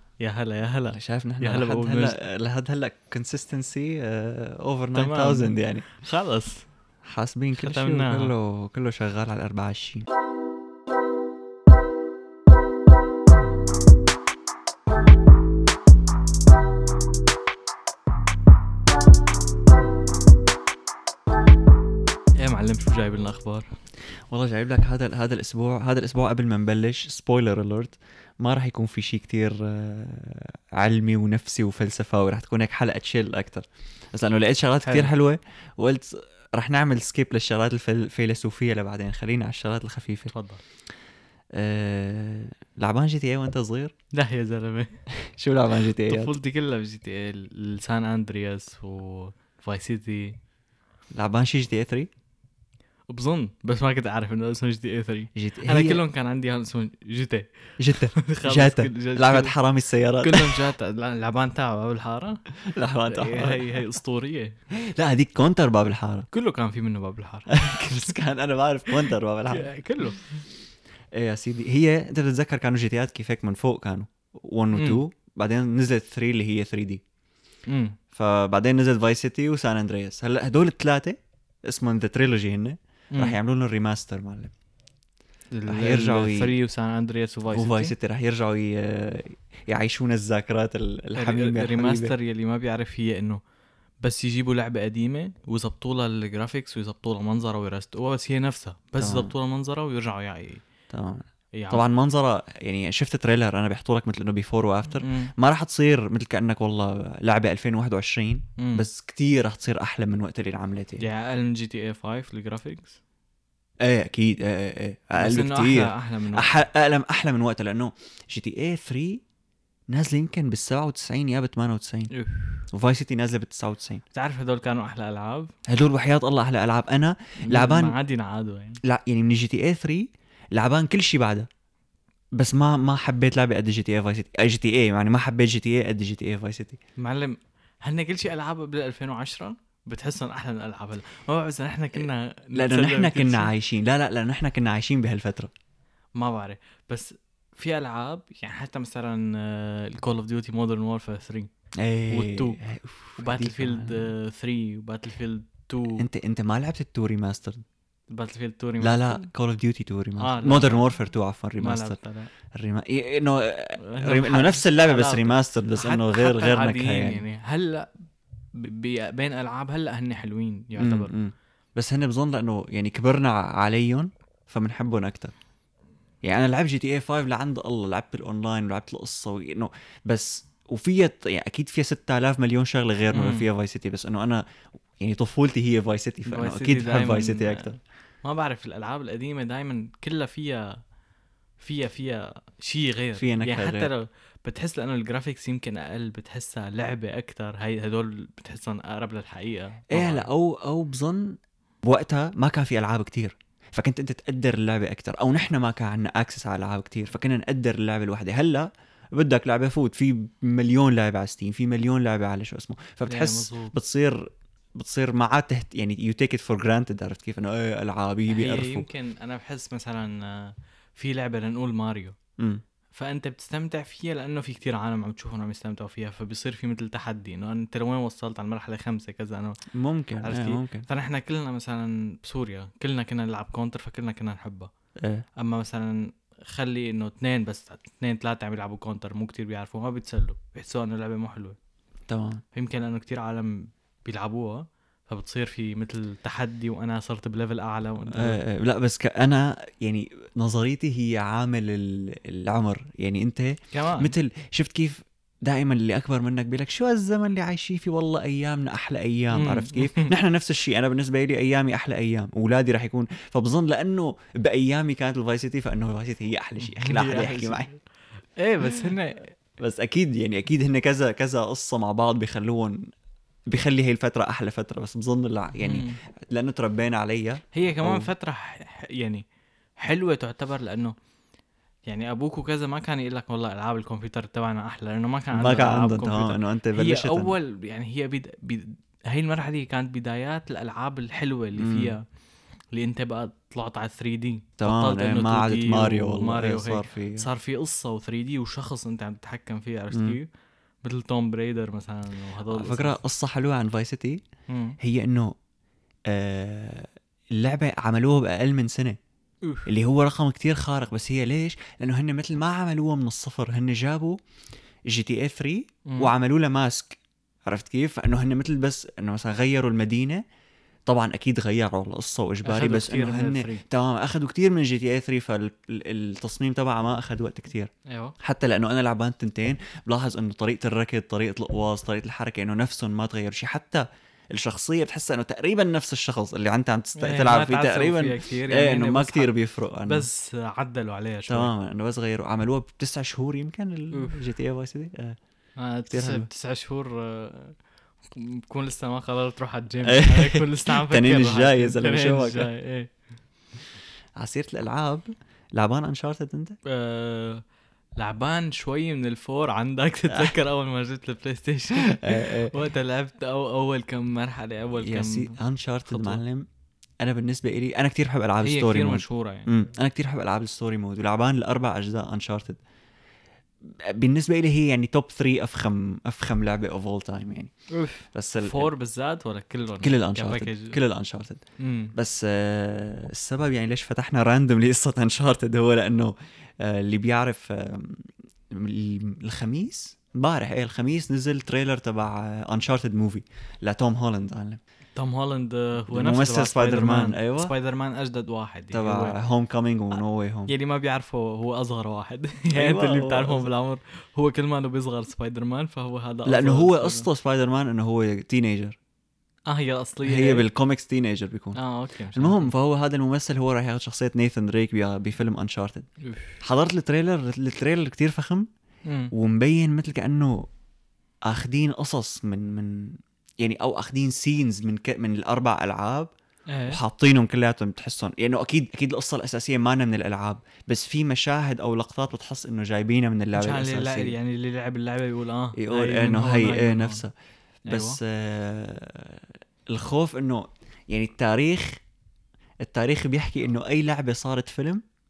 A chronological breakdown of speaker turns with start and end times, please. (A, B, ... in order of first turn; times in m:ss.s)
0:00.2-0:02.2 A
0:00.9-0:05.9 B
0:05.0-0:06.7 A
0:07.0-0:10.1 B
0:07.5-0:08.3 A
0:22.4-0:23.7 A
0:24.3-0:40.3 B
0:34.8-0:35.1 A
0:40.3-0:40.6 A
0:41.5-0:43.9 B
0:44.1-0:45.0 A
0:45.2-0:46.3 B
0:46.0-0:50.4 A
0:51.1-0:52.1 B
0:53.1-0:59.6 A
0:55.4-0:56.0 B
0:57.8-1:00.6 B
1:00.2-1:02.4 A
1:02.7-1:03.8 B
1:03.1-1:04.6 A
1:04.7-1:06.3 B
1:06.3-1:08.1 A
1:07.5-1:09.7 B
1:09.5-1:10.2 A
1:11.1-1:17.0 B
1:14.7-1:15.0 A
1:17.7-1:18.0 A
1:18.1-1:24.5 B
1:25.5-1:27.9 A
1:25.7-1:26.5 B
1:27.5-1:32.1 B
1:31.2-1:33.4 A
1:34.0-1:40.6 A
1:39.0-1:39.3 B
1:40.9-1:51.0 B
1:41.6-1:41.8 A
1:45.0-1:45.3 A
1:48.6-1:48.9 A
1:51.0-1:53.0 A
1:53.8-1:59.2 B
1:55.2-1:56.5 A
1:59.9-2:02.1 B
2:02.1-2:02.6 A
2:02.7-2:04.0 B
2:04.1-2:05.5 A
2:05.7-2:08.0 B
2:07.5-2:08.8 A
2:08.8-2:11.5 B
2:12.4-2:16.8 B
2:17.0-2:23.5 A
2:22.6-2:25.5 B
2:26.2-2:31.5 A
2:31.8-2:34.1 B
2:32.1-2:32.6 A
2:33.2-2:36.0 A
2:36.0-2:37.6 B
2:38.1-2:39.3 A
2:38.8-2:42.0 B
2:40.2-2:40.9 A
2:41.6-2:42.3 A
2:42.5-2:47.2 B
2:43.8-2:47.9 A
2:48.5-2:51.2 A
2:50.8-2:55.3 B
2:56.2-3:04.4 B
3:03.1-3:03.5 A
3:05.0-3:07.8 B
3:06.3-3:07.7 A
3:08.2-3:10.8 A
3:11.6-3:20.3 A
3:13.2-3:13.9 B
3:19.9-3:38.9 B
3:33.1-3:33.7 A
3:38.3-3:42.2 A
3:42.9-3:49.6 A
3:49.7-3:50.9 B
3:50.2-3:54.7 A
3:55.4-4:01.6 A
4:02.1-4:02.4 B
4:02.5-4:08.4 A
4:08.1-4:27.7 B
4:13.7-4:14.2 A
4:19.3-4:20.1 A
4:26.7-4:27.7 A
4:28.4-4:29.3 A
4:29.6-4:32.9 B
4:33.5-4:38.1 B
4:35.6-4:36.0 A
4:37.5-4:39.2 A
4:39.8-4:41.0 A
4:41.9-4:52.0 A
4:45.3-4:47.3 B
4:51.6-4:52.0 B
4:52.7-5:00.3 A
4:54.6-4:57.3 B
4:59.9-5:00.2 B
5:00.8-5:03.0 A
5:02.5-5:04.2 B
5:04.5-5:04.8 A
5:04.8-5:05.4 B
5:06.1-5:09.0 B
5:09.4-5:09.7 A
5:09.7-5:14.2 B
5:14.9-5:20.2 B
5:15.9-5:16.1 A
5:20.9-5:40.1 B
5:22.4-5:23.6 A
5:27.9-5:28.2 A
5:37.0-5:39.3 A
5:39.9-5:41.5 A
5:41.3-5:45.2 B
5:43.9-5:44.2 A
5:45.6-5:47.6 A
5:45.9-5:46.3 B
5:48.1-5:52.9 A
5:49.8-5:52.5 B
5:54.2-5:56.6 B
5:56.6-5:57.4 A
5:58.0-6:05.4 A
6:01.7-6:02.5 B
6:04.8-6:06.5 B
6:05.9-6:06.2 A
6:07.0-6:12.6 B
6:08.4-6:09.5 A
6:13.7-6:17.5 B
6:17.7-6:20.8 A
6:18.1-6:18.7 B
6:19.8-6:21.4 B
6:21.6-6:21.9 A
6:21.9-6:34.6 B
6:35.0-6:39.2 A
6:35.9-6:37.5 B
6:38.7-6:40.5 B
6:40.5-6:47.1 A
6:42.5-6:43.5 B
6:46.2-6:48.8 B
6:49.5-6:50.5 A
6:50.0-6:51.6 B
6:51.6-6:52.5 A
6:52.1-6:55.9 B
6:56.1-6:56.3 A
6:56.4-6:58.5 B
6:58.8-6:59.1 A
6:59.1-7:00.5 B
7:01.2-7:06.1 B
7:06.5-7:06.8 A
7:06.7-7:14.2 B
7:13.4-7:17.0 A
7:15.6-7:17.1 B
7:17.7-7:21.8 B
7:17.7-7:18.0 A
7:22.6-7:24.8 B